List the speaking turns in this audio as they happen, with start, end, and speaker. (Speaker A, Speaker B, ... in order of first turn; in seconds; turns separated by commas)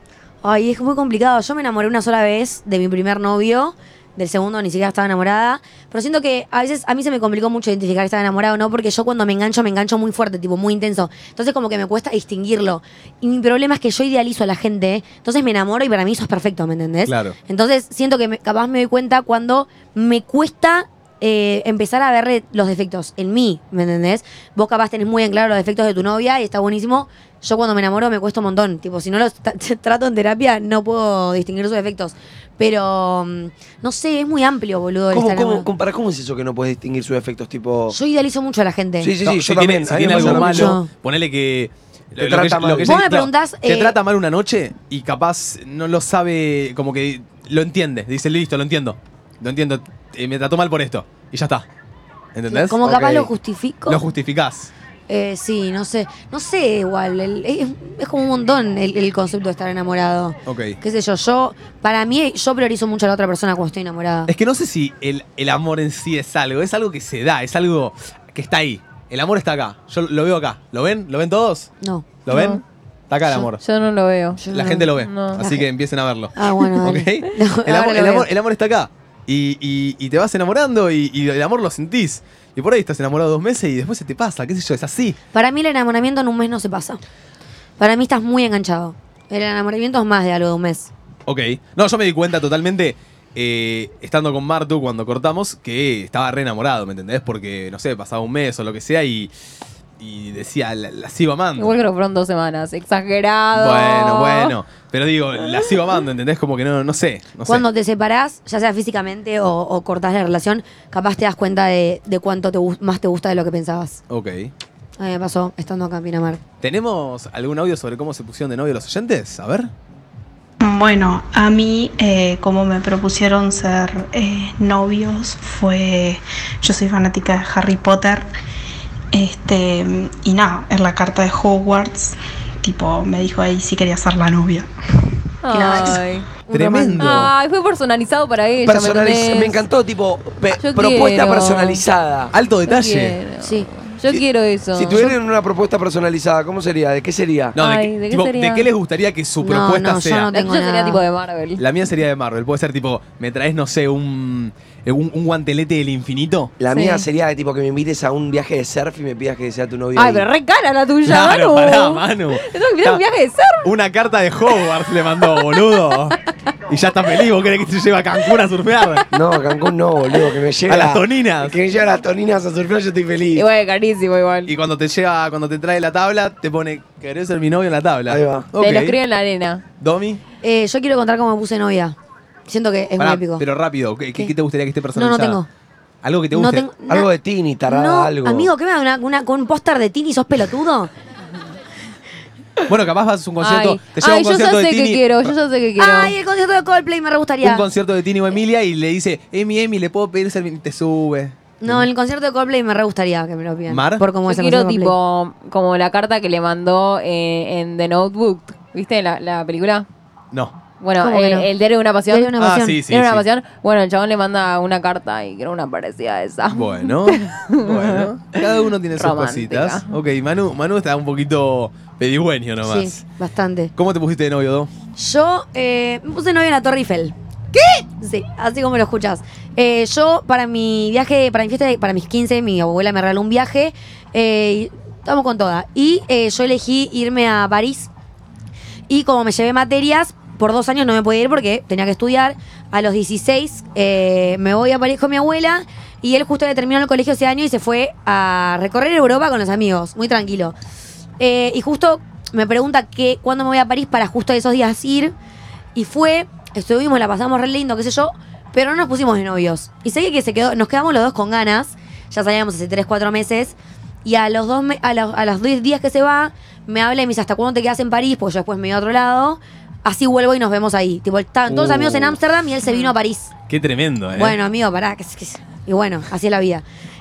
Speaker A: 0.4-35.7, Speaker B: 17.1-17.4, Speaker C: 35.1-38.0, Speaker A: 37.9-39.1, Speaker C: 39.0-40.8, Speaker B: 39.2-51.6, Speaker A: 40.1-40.9, Speaker C: 42.2-43.0, Speaker A: 42.8-44.0, Speaker B: 52.3-53.3, Speaker A: 52.5-54.0, Speaker B: 53.9-54.7, Speaker A: 55.1-64.3, Speaker B: 60.5-60.8, Speaker B: 64.3-71.7, Speaker A: 71.8-72.2, Speaker B: 72.2-73.6, Speaker D: 72.3-72.6, Speaker D: 73.3-74.4, Speaker A: 74.4-75.6, Speaker B: 74.5-85.2, Speaker D: 75.0-75.4, Speaker A: 76.3-78.3, Speaker A: 85.3-87.0, Speaker A: 87.8-90.9, Speaker B: 91.3-99.3, Speaker B: 100.0-101.7, Speaker D: 101.6-104.5, Speaker B: 103.5-107.6, Speaker A: 107.5-114.0, Speaker B: 114.1-114.5, Speaker A: 115.0-116.4, Speaker B: 116.6-119.7, Speaker E: 120.6-128.3, Speaker E: 129.1-134.7, Speaker D: 135.4-136.3, Speaker E: 135.5-136.0, Speaker A: 135.6-135.9, Speaker A: 136.4-137.2, Speaker B: 136.5-137.3, Speaker D: 137.0-139.6, Speaker C: 138.6-142.3, Speaker D: 140.6-141.8, Speaker B: 142.3-143.2, Speaker D: 142.7-145.1, Speaker A: 143.4-143.7, Speaker C: 144.1-147.6, Speaker D: 147.6-148.7, Speaker B: 147.6-150.3, Speaker A: 149.4-151.0, Speaker D: 150.3-151.6, Speaker B: 151.6-156.5, Speaker C: 156.6-160.3, Speaker D: 156.7-157.0, Speaker D: 159.9-163.7, Speaker B: 161.0-163.0, Speaker B: 163.6-166.2, Speaker D: 165.3-165.6, Speaker B: 166.7-169.1, Speaker C: 169.1-173.4, Speaker B: 170.7-171.6, Speaker D: 173.3-174.5, Speaker B: 174.5-178.9, Speaker C: 178.1-178.5, Speaker D: 178.6-179.6, Speaker B: 179.8-180.2, Speaker A: 180.4-181.9, Speaker A: 182.5-183.4, Speaker B: 183.0-185.4, Speaker A: 184.9-185.5, Speaker B: 186.0-186.7, Speaker A: 186.3-187.1, Speaker C: 186.9-188.5, Speaker A: 187.7-190.9, Speaker B: 192.7-195.3, Speaker D: 193.4-196.1, Speaker A: 195.8-197.6, Speaker B: 197.4-201.9, Speaker A: 201.6-204.9, Speaker B: 203.7-204.1, Speaker D: 204.2-209.9, Speaker D: 210.8-212.3, Speaker A: 211.0-211.5, Speaker A: 212.1-212.8, Speaker B: 212.4-213.2, Speaker D: 212.9-219.9, Speaker B: 216.5-223.0, Speaker A: 222.6-223.7, Speaker B: 223.8-224.7, Speaker A: 224.9-227.1, Speaker A: 227.8-237.9, Speaker A: 238.9-250.5, Speaker A: 251.2-255.1, Speaker A: 255.7-273.3, Speaker B: 271.5-272.1, Speaker D: 272.6-272.9, Speaker B: 273.5-274.4, Speaker A: 274.1-276.6